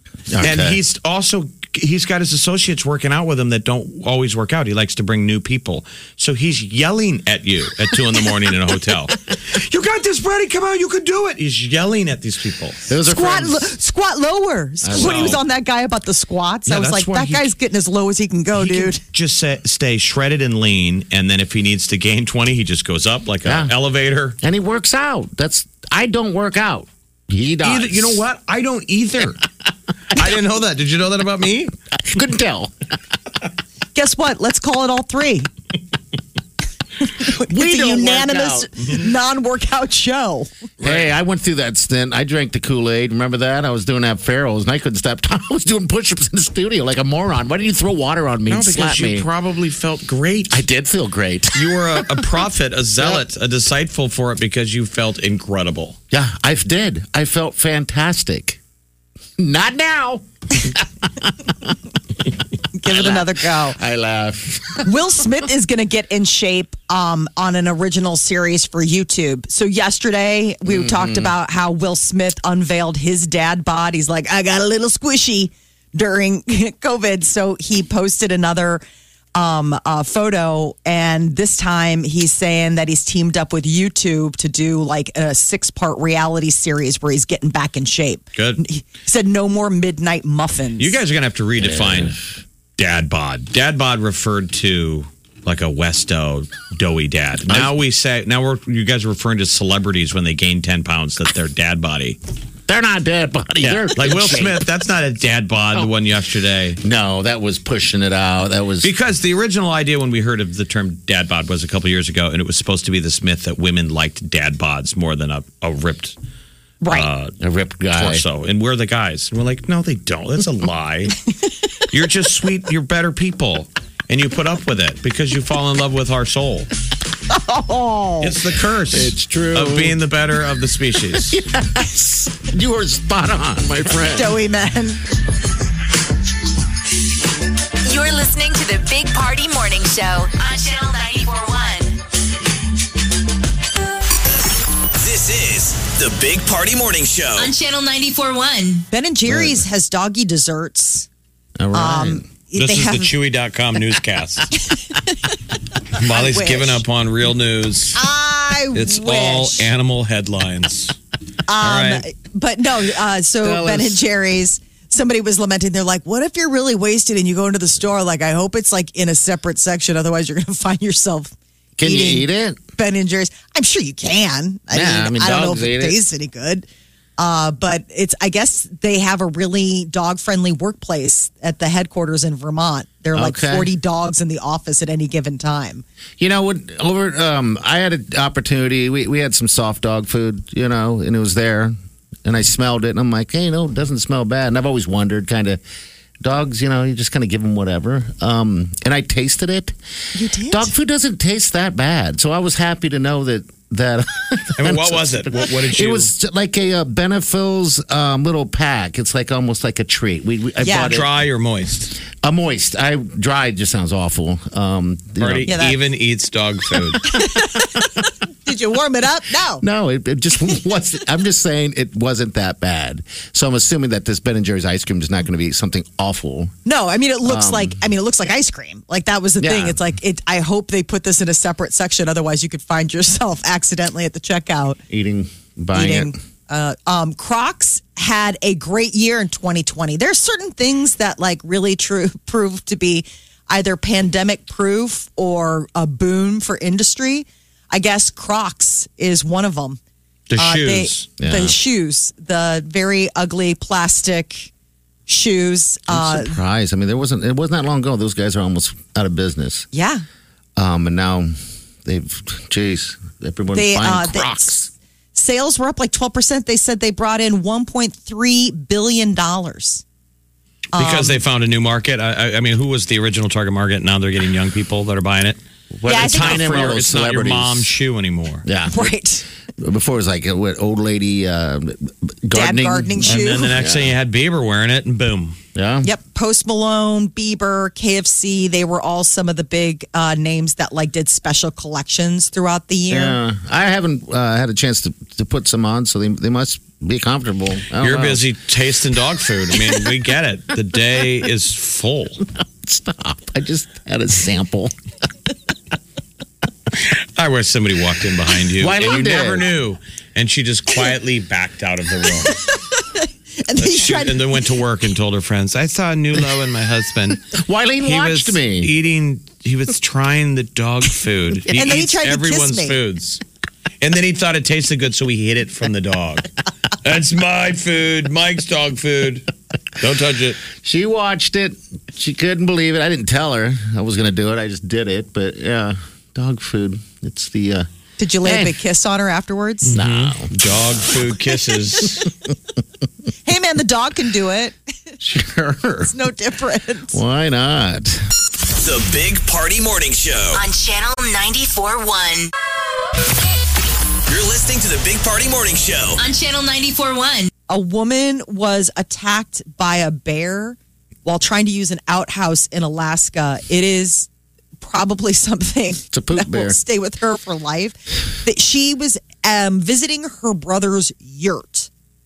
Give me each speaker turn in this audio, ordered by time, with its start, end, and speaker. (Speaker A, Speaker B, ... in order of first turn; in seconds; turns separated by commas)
Speaker A: 0.3-0.8, Speaker B: 0.4-12.8, Speaker A: 12.9-13.7, Speaker C: 13.0-19.0, Speaker A: 14.8-15.4, Speaker B: 14.9-15.4, Speaker B: 16.7-17.5, Speaker B: 18.6-24.4, Speaker A: 23.4-23.7, Speaker A: 24.4-28.2, Speaker B: 27.6-29.5, Speaker B: 30.1-31.7, Speaker A: 32.0-32.7, Speaker C: 34.0-35.5, Speaker C: 37.0-40.5, Speaker A: 37.2-38.9, Speaker B: 40.8-41.1, Speaker A: 40.8-49.3, Speaker B: 48.5-50.6, Speaker A: 50.5-52.2, Speaker B: 51.5-56.0, Speaker A: 56.1-58.6, Speaker A: 59.4-61.8, Speaker C: 62.8-63.8, Speaker A: 62.9-64.9, Speaker C: 64.8-78.8, Speaker A: 70.7-71.3, Speaker C: 79.3-90.9, Speaker B: 88.3-88.6, Speaker B: 90.8-92.2, Speaker A: 91.6-92.2, Speaker B: 92.8-102.2, Speaker A: 97.5-97.7, Speaker A: 102.7-104.6, Speaker B: 103.6-106.8, Speaker A: 106.8-108.9, Speaker B: 108.8-116.2, Speaker C: 116.8-117.1, Speaker B: 116.9-117.4, Speaker A: 117.4-118.2, Speaker B: 117.9-121.3, Speaker B: 121.8-126.7, Speaker C: 127.3-128.3, Speaker B: 128.2-131.4, Speaker A: 128.9-130.0, Speaker A: 131.2-134.4, Speaker C: 134.1-135.0, Speaker D: 137.8-142.0, Speaker E: 145.0-147.5, Speaker D: 147.4-148.9, Speaker C: 148.9-151.1, Speaker A: 149.3-149.6, Speaker A: 151.6-152.3, Speaker C: 151.7-153.1, Speaker B: 152.6-154.5, Speaker C: 154.7-155.1, Speaker B: 155.9-158.0, Speaker C: 155.9-156.8, Speaker C: 158.0-159.7, Speaker B: 158.7-161.0, Speaker C: 161.5-176.7, Speaker B: 161.6-162.1, Speaker A: 163.4-164.1, Speaker A: 171.8-172.6, Speaker A: 174.7-176.0, Speaker C: 177.2-185.8, Speaker A: 183.1-183.7, Speaker A: 186.2-195.6, Speaker A: 196.2-199.8, Speaker C: 200.1-200.7, Speaker A: 200.5-211.1, Speaker B: 204.6-206.1, Speaker C: 210.6-210.9, Speaker B: 210.7-212.0, Speaker A: 212.1-215.5, Speaker B: 215.2-217.2, Speaker C: 215.5-215.8, Speaker C: 217.1-219.6, Speaker A: 219.6-226.6, Speaker C: 226.7-234.8, Speaker A: 227.2-227.8, Speaker A: 229.4-229.8, Speaker A: 234.9-236.2, Speaker C: 235.7-249.8, Speaker B: 250.3-251.1, Speaker C: 250.4-254.5, Speaker A: 251.2-251.6, Speaker C: 255.1-256.4, Speaker A: 255.9-259.7, Speaker C: 259.7-260.0, Speaker A: 260.6-264.7, Speaker C: 263.5-264.6, Speaker C: 265.1-269.8, Speaker C: 270.7-271.2, Speaker B: 270.8-278.4, Speaker A: 275.7-277.7, Speaker C: 275.9-276.7, Speaker A: 278.4-278.9, Speaker C: 278.7-279.2, Speaker A: 279.6-283.9, Speaker C: 282.3-283.6, Speaker B: 283.1-285.4, Speaker A: 285.6-285.9, Speaker C: 285.8-293.2, Speaker A: 292.9-298.2, Speaker B: 297.8-302.2, Speaker A: 302.4-304.7, Speaker B: 306.8-312.4, Speaker A: 308.6-309.5, Speaker C: 312.3-314.4, Speaker B: 313.6-323.2, Speaker A: 317.3-318.7, Speaker C: 321.5-322.8, Speaker B: 323.8-326.3, Speaker B: 326.8-330.4, Speaker A: 330.6-337.7, Speaker C: 338.0-339.8, Speaker A: 338.2-338.6, Speaker B: 339.6-342.1, Speaker A: 339.7-340.5, Speaker C: 343.3-344.6, Speaker A: 345.0-345.9, Speaker C: 345.9-347.0, Speaker A: 346.9-348.0, Speaker E: 348.6-350.4, Speaker D: 350.3-352.3, Speaker E: 354.1-356.0, Speaker D: 356.0-357.3, Speaker C: 357.5-364.1, Speaker C: 364.6-371.7, Speaker A: 365.9-366.6